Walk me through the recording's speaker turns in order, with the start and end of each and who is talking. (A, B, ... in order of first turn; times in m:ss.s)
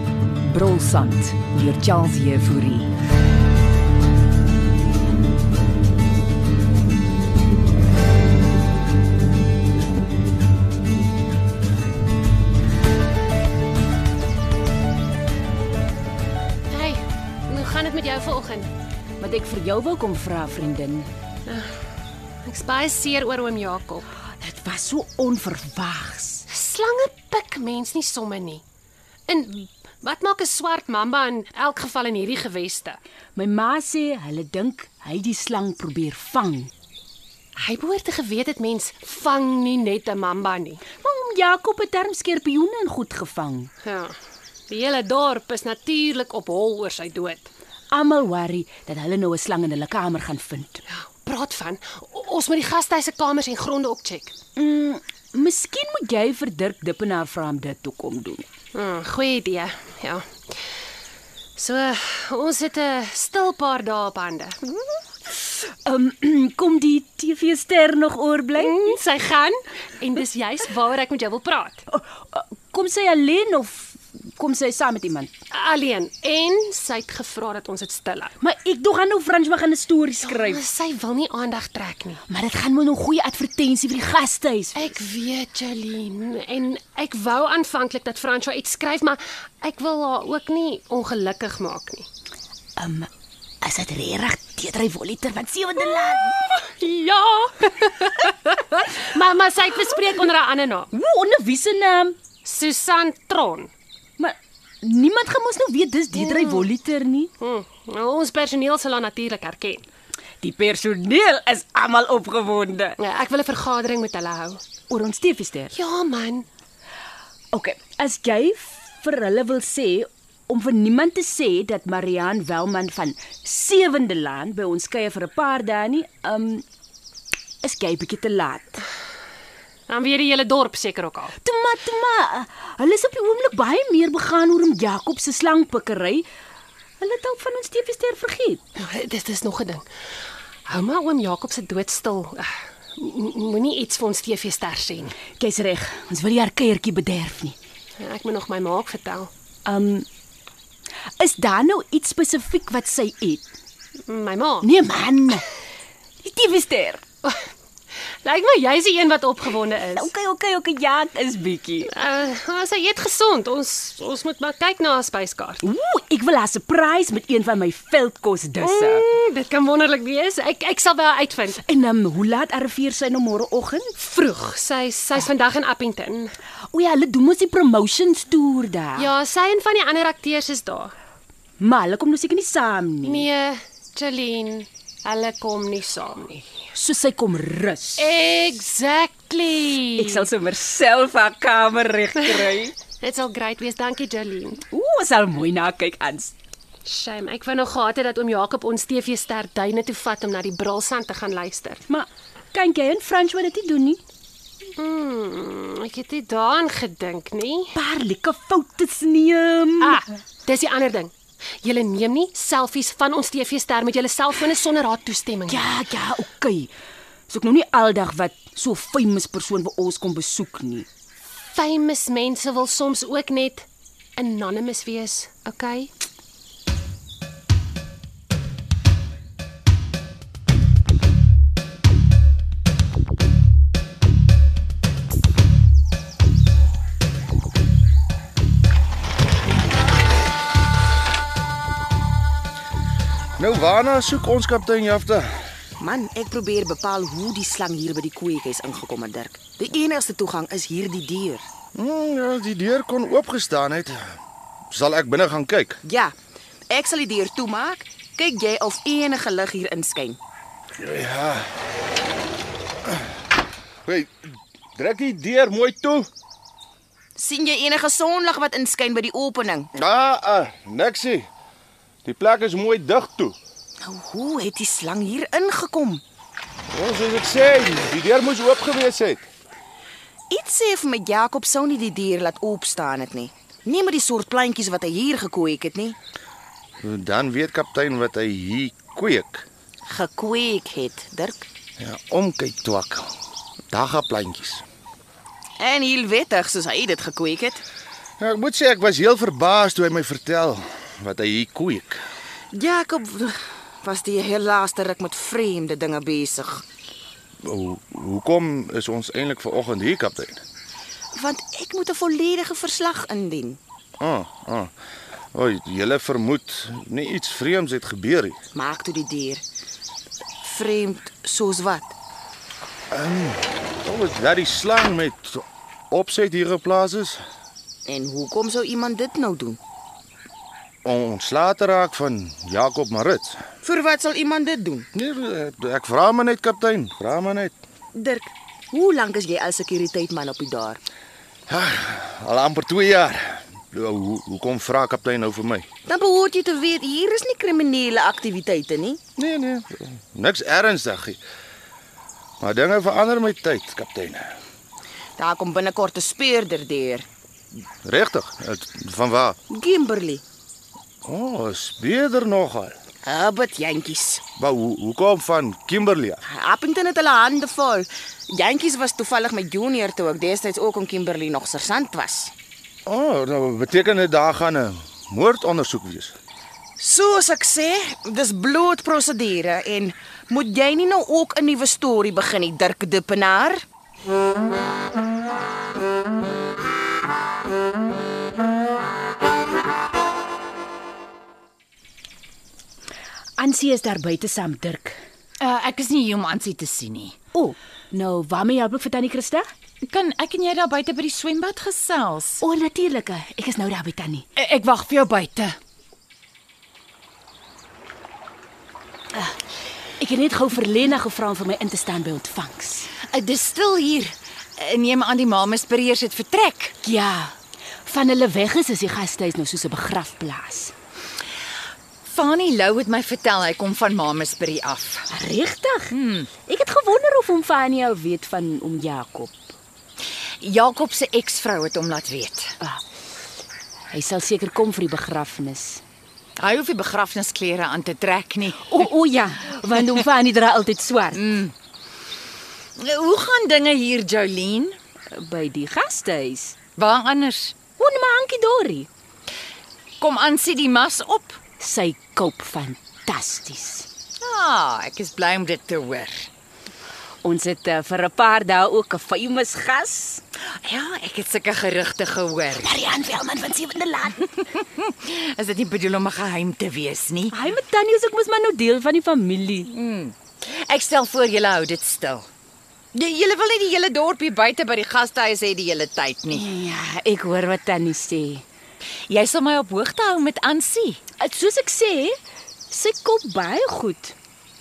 0:00.6-0:02.8 A
0:16.7-0:18.7 B
0:19.2-0:21.1 C
0:21.5-0:21.7 B
0:22.4-0:24.1 B
0:24.4-0:26.5 C
0:26.5-0:28.6 B
0:29.3-0:33.0 B
0:33.4-0:36.7 C
0:37.6-0:40.8 B
0:41.0-0:43.7 C
0:43.8-0:44.2 B
0:44.7-0:47.5 B
0:47.9-0:50.8 C
0:50.9-0:54.3 B
0:54.6-0:58.4 C
0:58.7-1:00.2 B
1:01.6-1:04.6 B
1:05.3-1:09.0 C
1:08.6-1:11.8 B
1:11.9-1:15.3 C
1:15.5-1:18.4 B
1:18.4-1:20.6 C
1:20.2-1:22.2 B
1:22.3-1:25.0 C
1:24.8-1:32.1 B
1:32.8-1:33.1 C
1:33.6-1:36.4 C
1:36.4-1:40.9 B
1:40.9-1:42.2 C
1:42.4-1:43.7 B
1:44.2-1:47.3 C
1:46.1-1:46.7 B
1:47.4-1:49.8 B
1:50.4-1:53.0 C
1:53.0-1:54.6 B
1:54.9-1:55.7 C
1:55.7-1:56.5 B
1:57.5-2:06.6 C
2:07.6-2:08.8 C
2:09.9-2:11.4 B
2:11.4-2:16.2 C
2:17.0-2:18.6 C
2:18.8-2:19.8 B
2:20.7-2:25.2 B
2:25.4-2:27.6 C
2:28.0-2:29.3 B
2:29.7-2:30.1 C
2:31.2-2:33.5 C
2:34.1-2:34.7 B
2:34.6-2:35.5 C
2:36.2-2:37.0 C
2:38.2-2:40.1 B
2:39.9-2:41.9 C
2:41.9-2:45.6 B
2:45.6-2:49.0 C
2:48.6-2:51.6 B
2:51.6-2:53.9 C
2:54.0-2:56.3 B
2:56.7-2:59.1 C
2:59.0-3:00.9 B
3:01.6-3:03.3 C
3:03.0-3:06.4 B
3:06.8-3:08.1 C
3:08.0-3:10.3 B
3:10.0-3:12.7 C
3:13.0-3:14.6 B
3:14.7-3:16.4 C
3:16.8-3:21.8 B
3:21.9-3:24.0 C
3:24.8-3:27.7 B
3:27.7-3:30.0 C
3:29.8-3:31.1 B
3:31.6-3:35.8 B
3:35.5-3:36.7 C
3:37.3-3:40.9 C
3:41.5-3:45.9 B
4:03.4-4:05.3 D
4:05.8-4:11.4 E
4:11.8-4:14.2 D
4:14.7-4:15.8 D
4:15.8-4:16.1 E
4:16.7-4:20.2 E
4:20.8-4:21.5 D
4:23.8-4:26.1 D
4:27.2-4:29.7 E
4:29.8-4:31.3 D
4:32.0-4:33.4 D
4:33.8-4:36.0 E
4:36.7-4:39.2 D
4:40.3-4:46.0 E
4:46.8-4:49.5 D
4:49.9-4:51.5 E
4:51.8-4:53.1 D
4:53.7-4:54.6 D
4:55.6-4:57.6 E
4:58.2-5:02.0 D
5:02.5-5:06.6 E
5:07.4-5:10.4 D
5:11.1-5:13.6 E
5:14.0-5:14.7 D
5:15.3-5:18.4 D
5:18.5-5:19.4 E
5:20.4-5:21.9 E
5:22.9-5:27.2 D
5:27.9-5:29.6 E
5:30.8-5:33.4 D
5:33.6-5:34.9 E
5:34.9-5:37.6 D
5:38.0-5:40.8 E
5:41.5-5:45.7 D
5:45.9-5:49.0 E
5:49.2-5:51.2 D
5:52.4-5:54.3 D
5:55.2-5:57.1 E
5:57.8-5:59.4 D
5:59.5-6:00.2 E
6:01.0-6:02.8 D
6:03.0-6:04.2 E
6:04.4-6:06.2 D
6:06.2-6:12.3 E
6:12.9-6:16.2 D
6:16.8-6:23.6 E
6:33.4-6:35.0 C
6:35.4-6:37.2 F
6:37.3-6:39.5 C
6:39.8-6:42.4 F
6:42.4-6:44.3 C
6:44.5-6:45.5 B
6:44.9-6:45.4 F
6:50.0-6:52.9 C
6:53.1-6:56.8 F
6:56.8-7:00.7 C
7:02.0-7:05.1 F
7:05.1-7:05.9 C
7:05.9-7:06.3 F
7:06.4-7:09.4 C
7:10.4-7:12.5 F
7:13.9-7:15.8 C
7:16.4-7:18.9 F
7:18.6-7:21.3 C
7:21.2-7:21.5 F
7:22.8-7:24.8 F
7:25.1-7:26.6 C
7:26.8-7:27.6 F
7:27.8-7:28.9 C
7:30.0-7:31.4 F
7:31.6-7:33.9 C
7:34.2-7:36.3 F
7:37.2-7:40.2 C
7:40.6-7:42.7 F
7:42.6-7:44.4 C
7:44.6-7:47.3 F
7:47.3-7:49.7 C
7:49.7-7:52.3 F
7:52.9-7:56.5 F
7:56.3-7:58.4 C
7:59.1-8:01.0 F
8:01.2-8:02.2 C
8:02.7-8:04.2 C